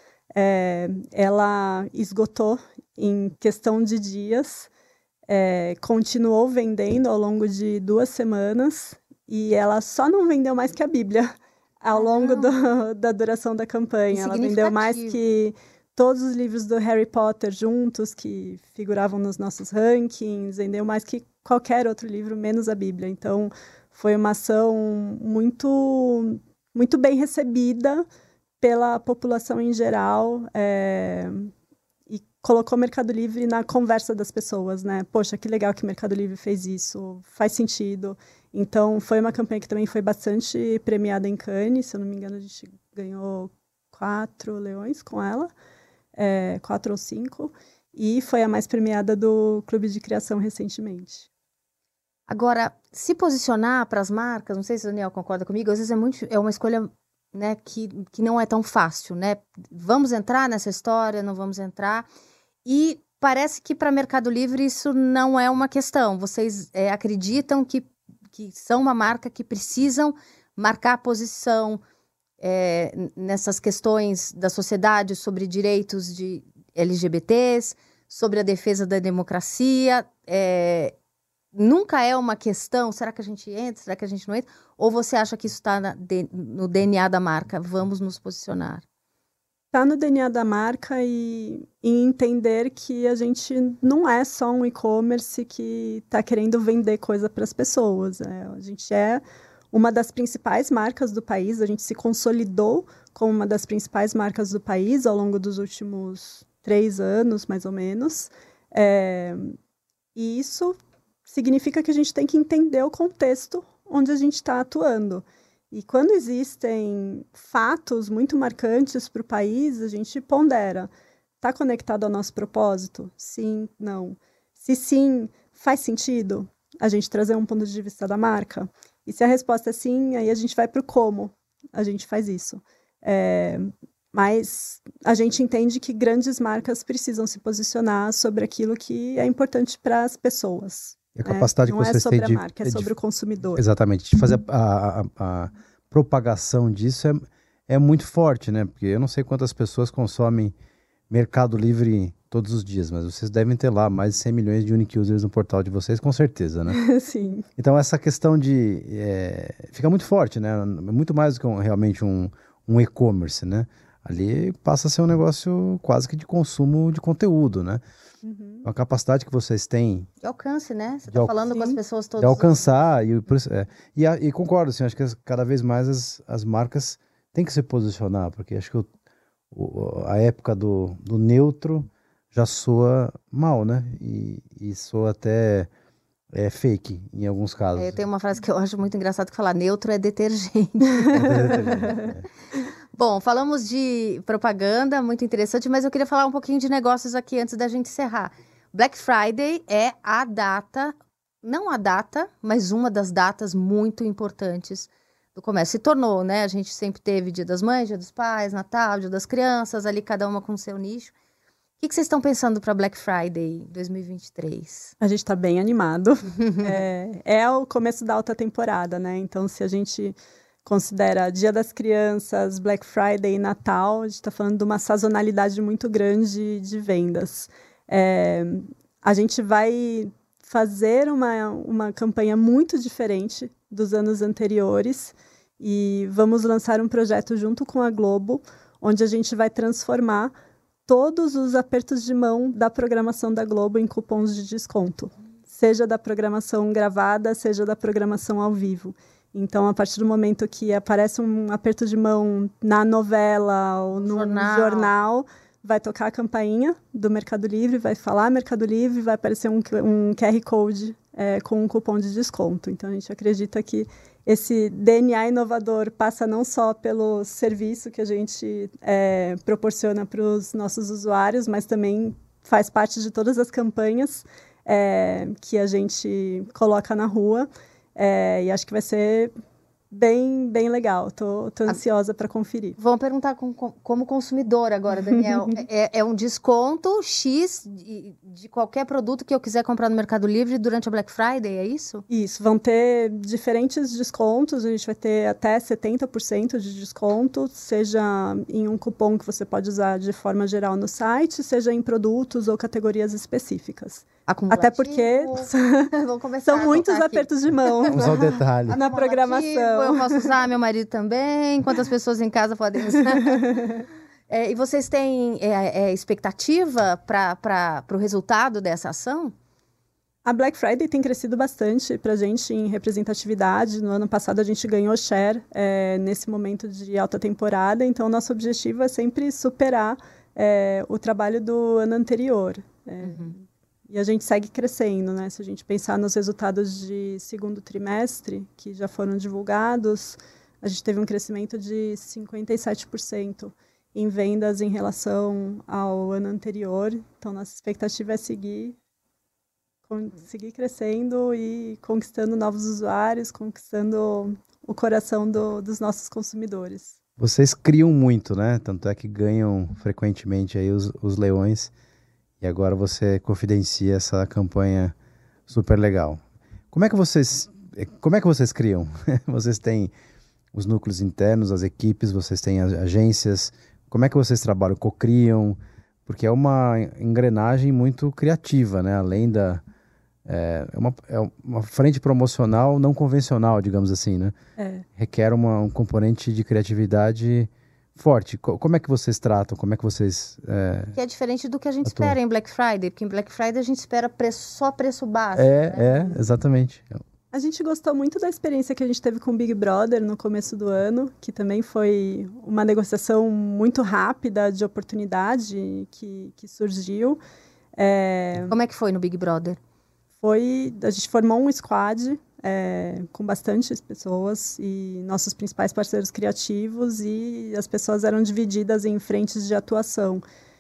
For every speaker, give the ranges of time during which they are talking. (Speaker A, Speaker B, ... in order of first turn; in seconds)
Speaker A: 0.3-4.7, 5.3-28.1, 28.6-31.5, 32.1-45.5, 46.2-51.3, 89.7-109.6, 110.2-120.9, 121.4-143.6, 156.7-157.5, 168.2-168.6, 171.5-171.8, 215.0-240.3, 240.9-279.3, 279.9-282.8, 285.1-285.6, 292.1-305.9, 306.4-310.4, 313.3-313.9, 320.2-348.8, 349.9-357.0, 384.6-384.9, 395.8-396.1, 397.3-407.2, 407.8-408.6, 410.2-420.2
Speaker B: 11.9-12.5, 14.1-15.2, 52.3-62.1, 62.6-71.8, 72.4-80.9, 81.5-88.8, 170.2-172.7, 187.8-192.0, 192.9-211.1, 211.8-214.9, 216.3-216.8, 254.0-254.9, 282.8-292.0, 304.3-308.2, 308.7-313.6, 314.3-319.3, 333.0-333.3, 390.9-395.9, 408.5-409.6
Speaker C: 141.2-142.9, 143.6-150.5, 151.1-156.8, 157.6-167.8, 168.6-170.1, 172.2-178.9, 179.5-185.7, 186.3-188.0, 191.1-192.3, 307.9-308.8, 357.2-361.7, 362.4-364.9, 365.5-366.2, 366.7-369.9, 370.5-379.6, 380.3-384.4, 385.0-390.9, 391.9-392.2, 395.4-397.0